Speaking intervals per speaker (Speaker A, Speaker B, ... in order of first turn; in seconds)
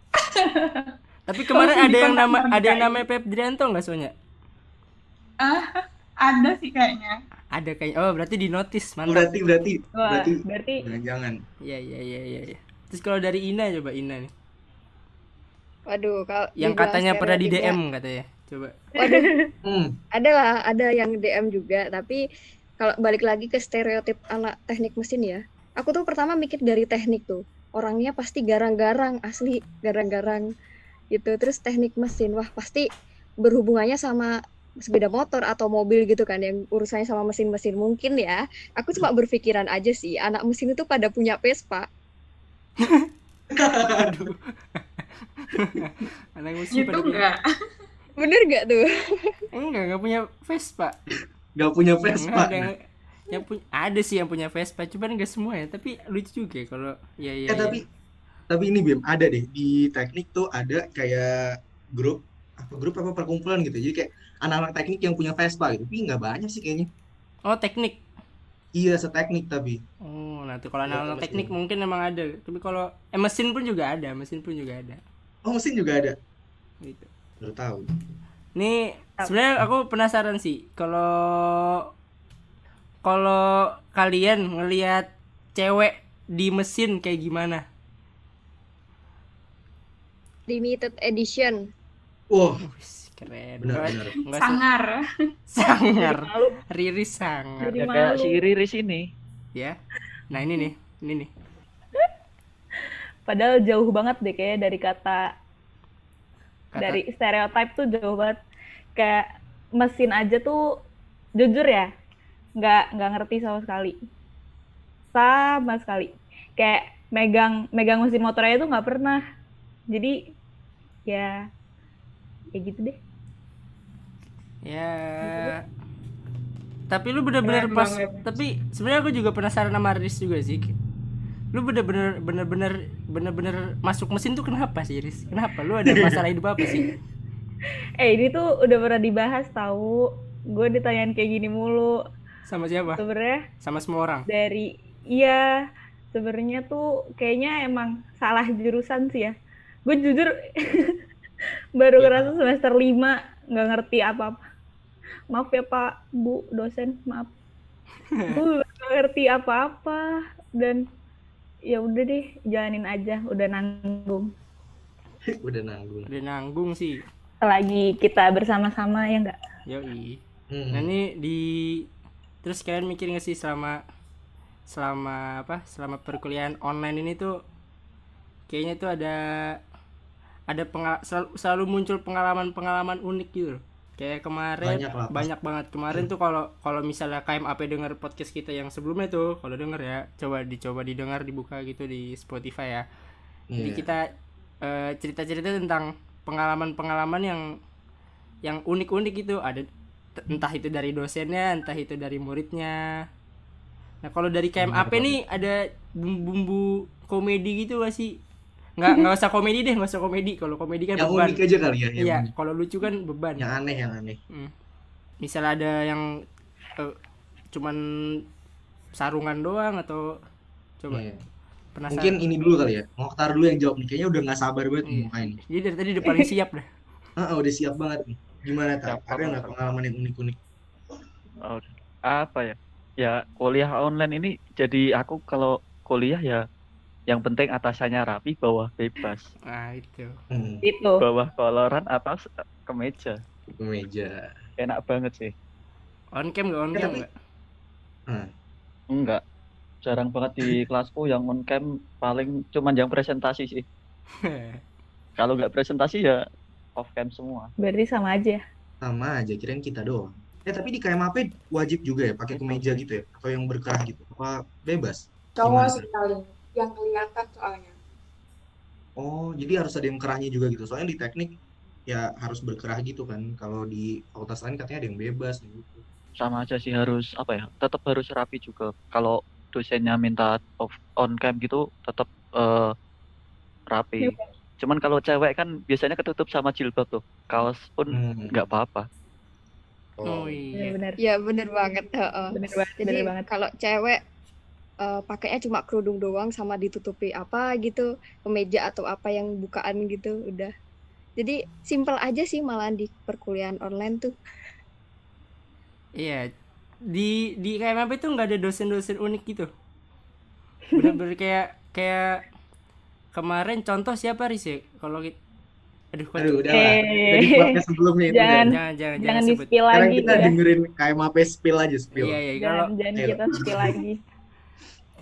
Speaker A: 0.2-0.9, 1.5-3.0, 5.4-7.2, 46.7-47.4, 94.3-95.0, 265.4-267.7
Speaker B: 1.3-4.1, 7.5-9.3, 11.6-14.3, 16.6-18.7, 42.8-43.1, 44.0-47.2, 49.5-51.0, 52.1-52.8, 53.3-57.8, 67.5-68.0, 70.0-75.0, 76.8-77.1, 78.5-81.8, 83.0-87.6, 92.6-94.6, 95.5-97.8, 100.3-101.3, 106.7-107.0, 124.7-125.6, 126.9-130.7, 131.5-136.9, 142.5-143.0, 143.6-144.2, 152.1-152.3, 158.1-158.4, 166.1-167.0, 169.7-170.2, 170.7-171.8, 172.4-173.8, 174.7-177.3, 178.5-179.6, 180.5-192.8, 193.6-194.1, 194.6-197.4, 198.4-199.6, 200.2-202.8, 204.0-208.2, 208.8-211.4, 212.0-213.5, 215.2-216.1, 217.5-218.2, 219.0-220.2, 221.7-222.2, 224.8-226.7, 239.5-240.1, 246.1-247.1, 254.2-254.6, 290.0-290.8, 306.0-306.3, 306.9-309.5, 310.7-312.2, 313.1-315.1, 315.9-316.5, 318.4-319.5, 321.9-322.7
Speaker C: 9.1-11.4, 19.6-19.9, 43.5-44.3, 51.5-52.7, 57.5-57.8, 58.5-61.4, 61.9-66.9, 68.8-69.8, 70.9-71.5, 75.5-76.2, 77.4-77.9, 92.3-92.6, 93.6-94.1, 135.9-136.2, 165.4-166.1, 170.5-170.9, 184.6-185.3, 193.5-193.9, 204.6-205.2, 210.9-212.3, 213.4-214.2, 220.9-221.2, 221.9-225.4, 227.2-230.4, 240.3-240.6, 243.5-244.3, 246.7-247.0, 258.8-265.9, 269.0-275.8, 287.9-288.3, 290.0-290.4, 316.2-318.5, 319.7-322.2, 322.9-323.8
Speaker D: 10.0-10.8, 18.9-19.5, 95.7-96.5, 97.6-98.4, 103.3-105.3, 106.8-108.4, 109.0-110.6, 111.4-111.9, 112.6-114.0, 115.1-119.2, 119.9-120.2, 121.1-121.4, 122.5-123.0, 125.2-125.5, 127.5-128.2, 138.0-141.9, 142.9-143.4, 144.3-145.4, 146.1-149.3, 149.8-150.9, 151.8-154.4, 155.3-157.3, 158.3-160.0, 160.6-160.8, 161.7-164.3, 167.4-169.3, 240.6-241.0, 257.6-258.4, 290.5-291.0, 292.3-293.3, 316.5-320.4, 322.4-324.0
Speaker E: 15.9-17.8, 19.0-19.3, 20.1-22.2, 22.8-30.4, 31.1-32.9, 33.4-41.9, 48.2-49.4, 90.5-91.7, 291.0-294.0, 294.8-300.5, 301.2-304.1
Speaker F: 97.8-99.0, 228.8-229.5, 231.4-236.4, 237.1-239.3, 241.0-243.2, 244.6-245.3, 248.9-249.2, 249.8-253.6, 255.2-256.2, 256.8-257.5, 262.3-262.8, 276.2-282.7, 283.7-288.8